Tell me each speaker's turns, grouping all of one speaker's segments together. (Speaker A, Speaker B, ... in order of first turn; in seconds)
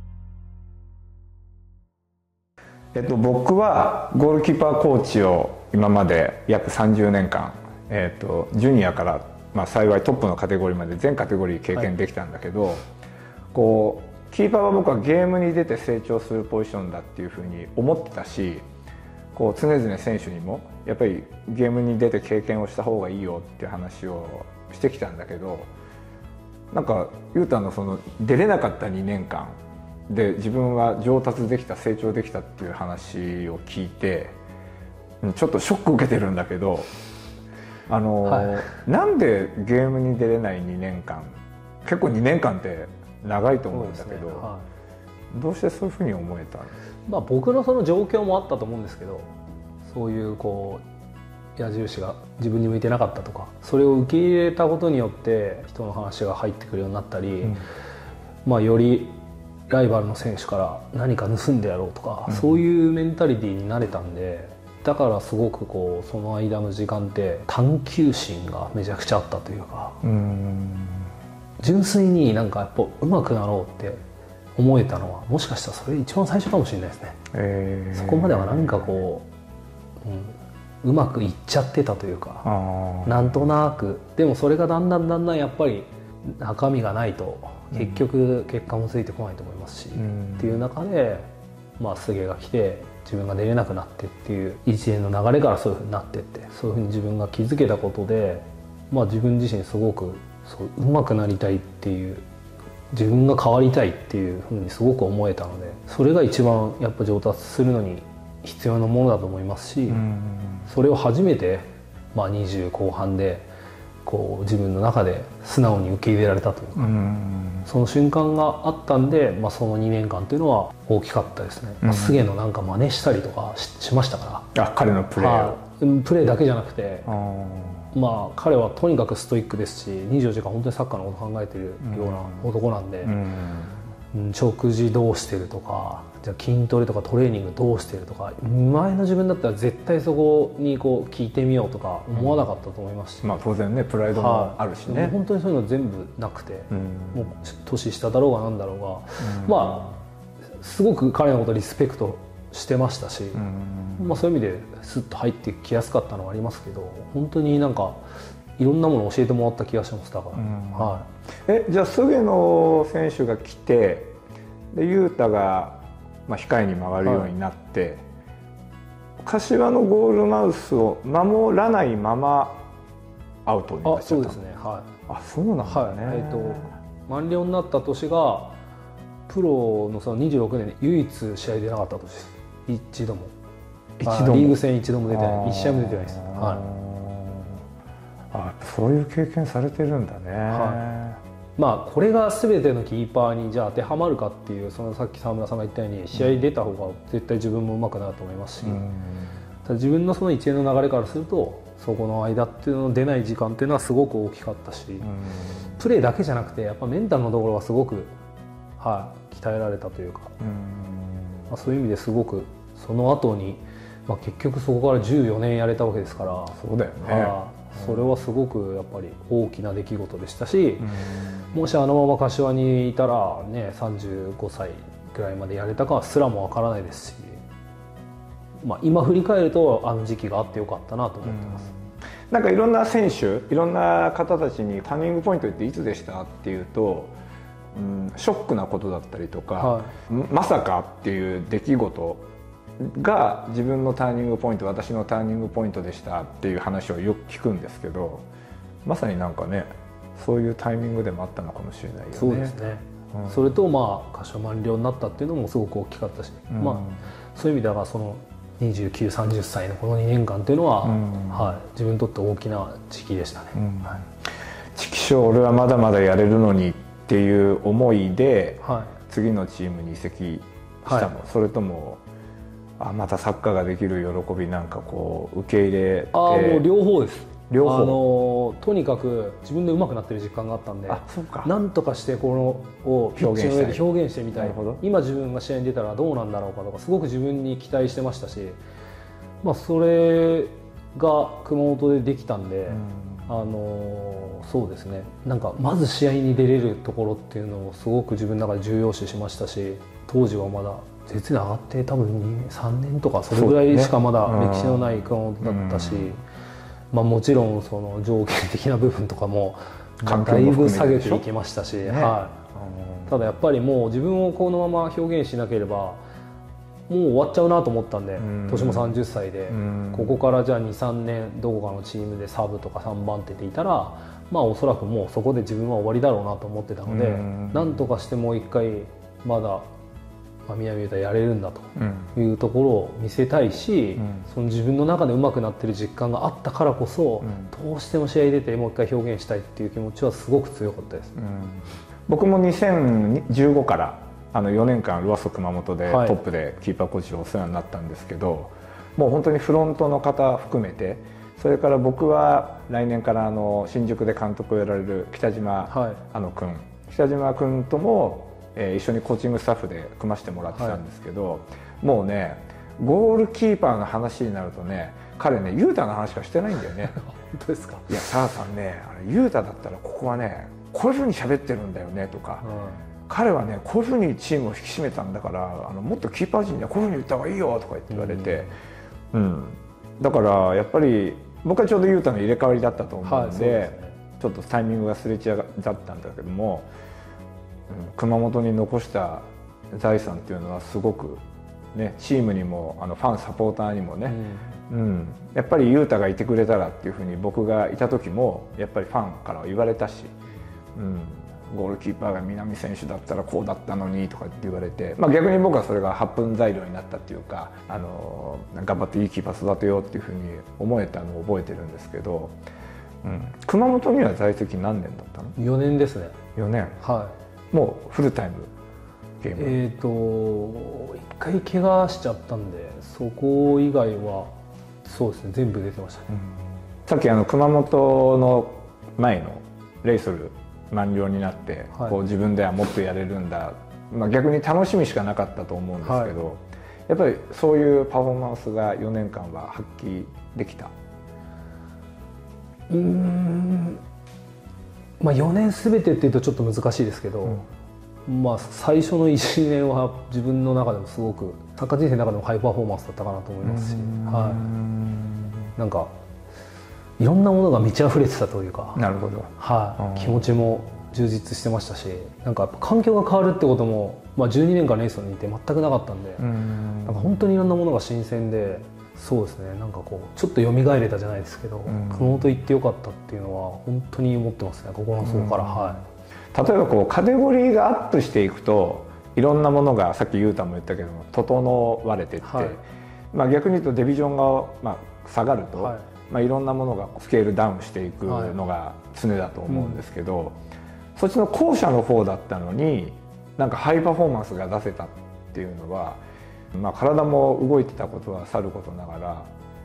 Speaker A: 2.9-12.8, 13.5-18.6, 19.3-25.7, 26.7-29.6, 30.1-34.4, 35.2-36.9, 37.9-44.5, 45.3-46.7, 62.3-62.6, 70.0-71.1, 77.3-78.9, 82.4-83.4, 87.7-88.0, 90.0-90.6, 109.9-110.7, 116.8-117.7, 121.8-122.2, 124.5-125.6, 127.0-127.9, 131.8-132.5, 133.0-133.8, 142.1-142.4, 143.2-145.2, 146.7-147.3, 149.2-149.9, 153.3-154.2, 160.3-164.2, 164.7-168.0, 169.2-172.6, 173.4-174.4, 175.1-176.7, 184.0-187.6, 188.3-191.2, 198.6-199.4, 205.0-205.8, 210.4-211.5, 216.5-218.1, 220.8-221.7, 231.2-237.2, 237.7-242.3, 242.8-248.2, 248.8-252.6, 253.1-253.5, 256.5-257.0, 260.8-261.6, 263.5-264.1, 264.7-272.0, 272.8-276.6, 277.5-278.0, 280.9-281.5, 283.1-284.8, 292.7-293.3, 303.3-306.2, 310.0-311.2, 311.8-313.3, 318.2-320.2, 326.9-327.9, 331.8-332.1, 334.0-334.2, 337.2-337.5, 341.1-367.0, 367.9-372.4, 373.1-378.5, 379.1-386.7, 387.7-391.2, 391.7-400.1, 400.7-412.4, 413.0-415.4, 416.4-416.8, 417.5-418.5, 419.2-419.6, 426.1-440.7, 453.4-455.5, 458.8-460.3, 466.2-467.3, 471.7-472.4, 475.0-475.8, 476.3-490.4, 490.9-496.0, 496.5-499.3
Speaker B: 38.2-38.8, 43.7-44.6, 47.1-49.3, 49.8-50.8, 51.6-57.6, 58.4-59.2, 59.7-70.0, 71.6-74.0, 74.5-77.2, 77.9-79.3, 80.0-82.5, 83.0-91.3, 91.8-102.2, 102.9-110.0, 110.7-113.5, 114.0-116.9, 117.7-124.5, 125.2-127.1, 127.9-133.2, 134.1-143.4, 144.1-149.9, 150.6-153.4, 154.0-158.0, 158.6-161.1, 167.0-167.3, 173.8-174.9, 175.6-178.6, 179.3-183.3, 184.0-186.6, 190.5-190.9, 191.6-198.8, 199.6-205.1, 205.8-208.1, 208.8-210.3, 211.5-220.9, 221.5-227.4, 228.6-231.7, 239.6-239.9, 252.1-263.6, 268.6-268.9, 276.1-288.6, 289.4-306.2, 306.9-312.4, 313.1-316.0, 316.9-329.6, 330.4-341.1, 345.9-346.2, 355.7-356.0, 360.5-360.8, 367.0-368.1, 372.4-372.8, 377.9-378.5, 383.0-384.0, 394.1-394.6, 415.4-416.2, 416.8-417.1, 419.4-424.3, 424.8-426.1, 435.8-436.1, 442.7-443.8, 445.0-447.4, 448.1-454.5, 455.6-455.9, 457.0-458.8, 459.4-466.3, 466.9-475.8, 482.2-482.6, 485.6-485.9, 488.1-488.4, 489.5-489.8